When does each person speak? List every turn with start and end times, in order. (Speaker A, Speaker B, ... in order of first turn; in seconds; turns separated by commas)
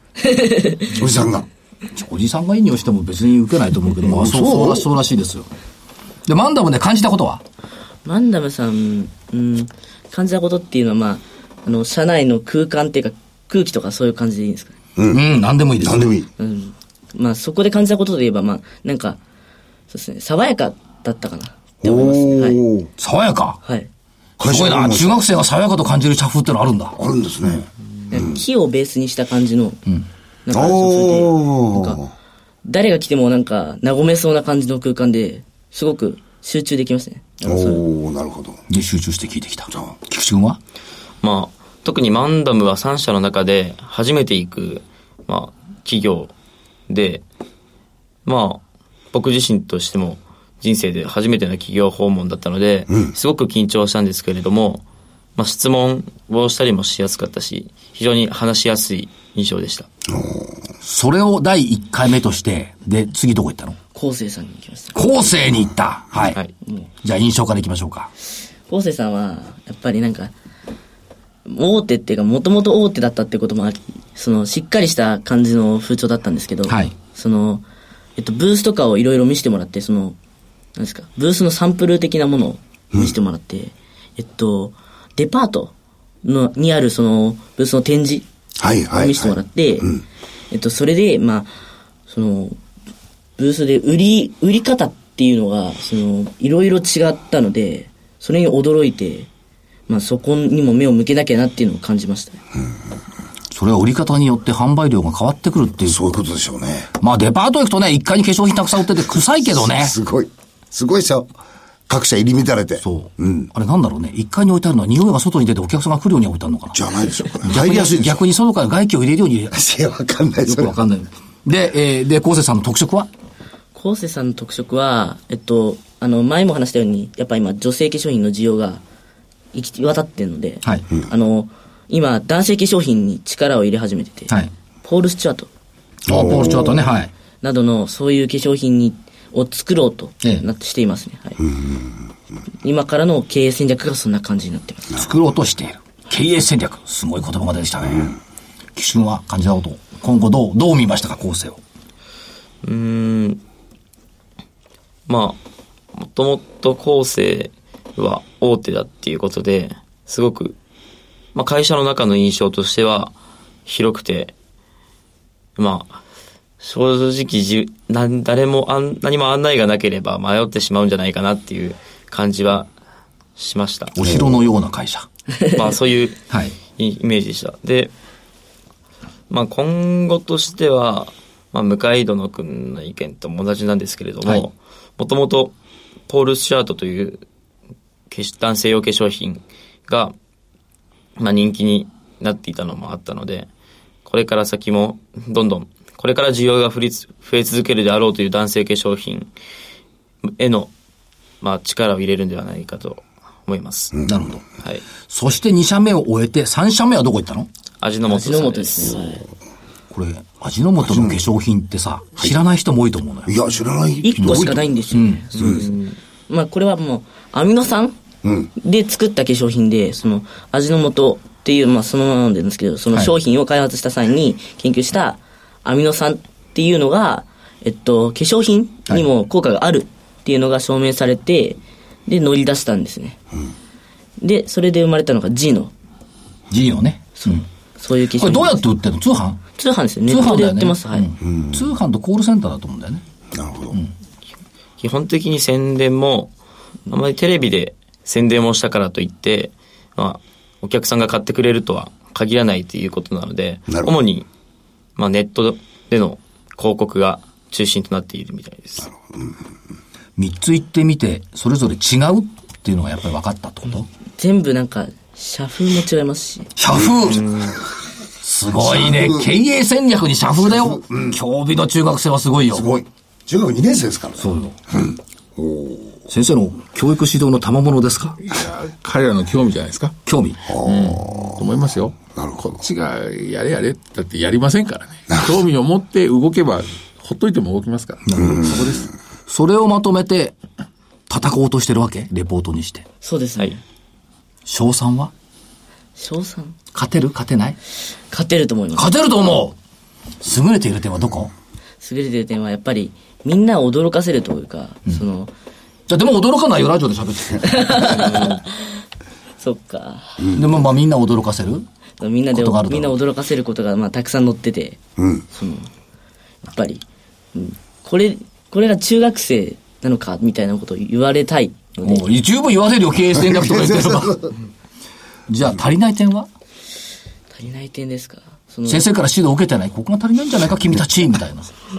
Speaker A: 0.2-1.0, Speaker B: 0.9-1.5, Speaker C: 1.9-5.5, Speaker B: 4.0-4.9, Speaker C: 6.3-7.4, Speaker A: 8.0-14.8, Speaker B: 14.9-15.2, Speaker C: 15.1-16.1, Speaker B: 15.8-16.3, Speaker A: 16.4-19.2, Speaker A: 19.9-22.6, Speaker B: 21.8-22.9, Speaker C: 23.0-23.6, Speaker B: 24.4-25.2, Speaker C: 24.4-27.0, Speaker B: 26.9-28.4, Speaker A: 28.1-29.8, Speaker A: 30.4-32.0, Speaker B: 30.5-32.1, Speaker A: 32.6-37.8, Speaker B: 37.4-38.6, Speaker C: 38.7-40.6, Speaker D: 41.2-46.3, Speaker D: 46.9-47.2, Speaker D: 48.2-48.6, Speaker D: 49.1-54.8, Speaker D: 55.4-59.9, Speaker B: 60.0-60.7, Speaker C: 60.8-63.8, Speaker A: 63.9-65.0, Speaker C: 64.9-66.4, Speaker C: 67.0-68.1, Speaker A: 68.7-70.3, Speaker A: 71.5-77.6, Speaker C: 76.7-76.9, Speaker A: 78.2-80.2, Speaker A: 80.8-88.2, Speaker B: 88.6-90.0, Speaker A: 88.9-90.0, Speaker A: 90.5-91.5, Speaker A: 92.1-92.6, Speaker A: 93.4-99.3, Speaker A: 99.9-102.4, Speaker C: 103.5-106.0, Speaker B: 105.8-106.9, Speaker C: 107.0-110.0, Speaker B: 109.5-111.3, Speaker B: 111.9-113.5, Speaker C: 112.8-116.8, Speaker B: 116.7-118.2, Speaker C: 117.4-119.6, Speaker B: 119.5-120.8, Speaker C: 120.4-123.1, Speaker A: 123.7-128.8, Speaker A: 129.5-134.3, Speaker A: 134.8-135.5, Speaker B: 136.1-136.9, Speaker C: 136.1-137.1, Speaker A: 137.4-141.4, Speaker B: 141.4-142.0, Speaker A: 142.6-145.0, Speaker C: 144.9-148.2, Speaker C: 148.8-151.6, Speaker D: 152.6-153.4, Speaker D: 155.1-155.4, Speaker D: 155.9-160.6, Speaker D: 161.3-163.1, Speaker D: 163.7-164.3, Speaker D: 165.6-166.0, Speaker D: 166.6-172.7, Speaker D: 173.4-173.9, Speaker C: 173.9-175.1, Speaker B: 174.0-174.4, Speaker D: 175.5-176.2, Speaker C: 176.3-176.5, Speaker D: 176.8-177.9, Speaker D: 179.3-185.5, Speaker D: 186.1-187.2, Speaker D: 188.1-190.1, Speaker D: 191.2-193.5, Speaker D: 194.0-199.3, Speaker D: 200.2-200.7, Speaker D: 201.4-203.9, Speaker B: 203.9-204.3, Speaker C: 204.1-204.4, Speaker C: 205.1-207.5, Speaker D: 207.8-209.2, Speaker A: 208.1-209.2, Speaker C: 209.9-213.3, Speaker B: 210.8-211.2, Speaker B: 213.2-215.7, Speaker A: 214.0-215.8, Speaker C: 214.2-215.2, Speaker D: 215.3-216.0, Speaker A: 216.3-218.0, Speaker B: 218.2-218.5, Speaker A: 218.6-233.2, Speaker A: 234.2-235.7, Speaker C: 236.5-237.4, Speaker A: 237.2-238.6, Speaker C: 238.1-239.4, Speaker A: 239.6-241.1, Speaker C: 240.1-243.0, Speaker B: 241.2-241.6, Speaker B: 243.3-243.8, Speaker D: 244.8-246.3, Speaker D: 246.9-254.3, Speaker B: 253.7-253.9, Speaker D: 255.0-258.9, Speaker B: 258.8-259.4, Speaker C: 260.2-263.9, Speaker A: 264.2-266.5, Speaker C: 266.6-267.2, Speaker B: 266.7-267.5, Speaker D: 267.1-267.6, Speaker C: 268.2-272.8, Speaker B: 268.6-269.3, Speaker B: 270.4-271.2, Speaker B: 272.5-276.0, Speaker C: 274.2-274.6, Speaker C: 276.1-278.2, Speaker E: 278.2-280.0, Speaker C: 280.1-280.4, Speaker B: 280.5-281.4, Speaker E: 280.5-288.9, Speaker B: 282.1-282.6, Speaker C: 288.0-288.6, Speaker C: 289.3-290.4, Speaker C: 291.1-292.8, Speaker A: 293.0-293.6, Speaker C: 294.4-295.1, Speaker A: 296.0-296.6, Speaker C: 296.7-297.6, Speaker A: 298.1-298.9, Speaker C: 298.7-299.6, Speaker C: 300.2-301.3, Speaker A: 301.8-305.3, Speaker C: 305.9-308.1, Speaker A: 307.5-308.8, Speaker A: 309.4-310.2, Speaker B: 310.2-310.5, Speaker C: 310.3-311.6, Speaker A: 312.0-314.8, Speaker C: 312.3-313.0, Speaker B: 315.0-315.2, Speaker A: 315.3-315.7, Speaker A: 316.4-316.8, Speaker A: 317.3-322.1, Speaker C: 321.8-324.2, Speaker B: 323.2-324.3, Speaker C: 325.3-326.3, Speaker A: 327.3-328.8, Speaker C: 328.7-331.5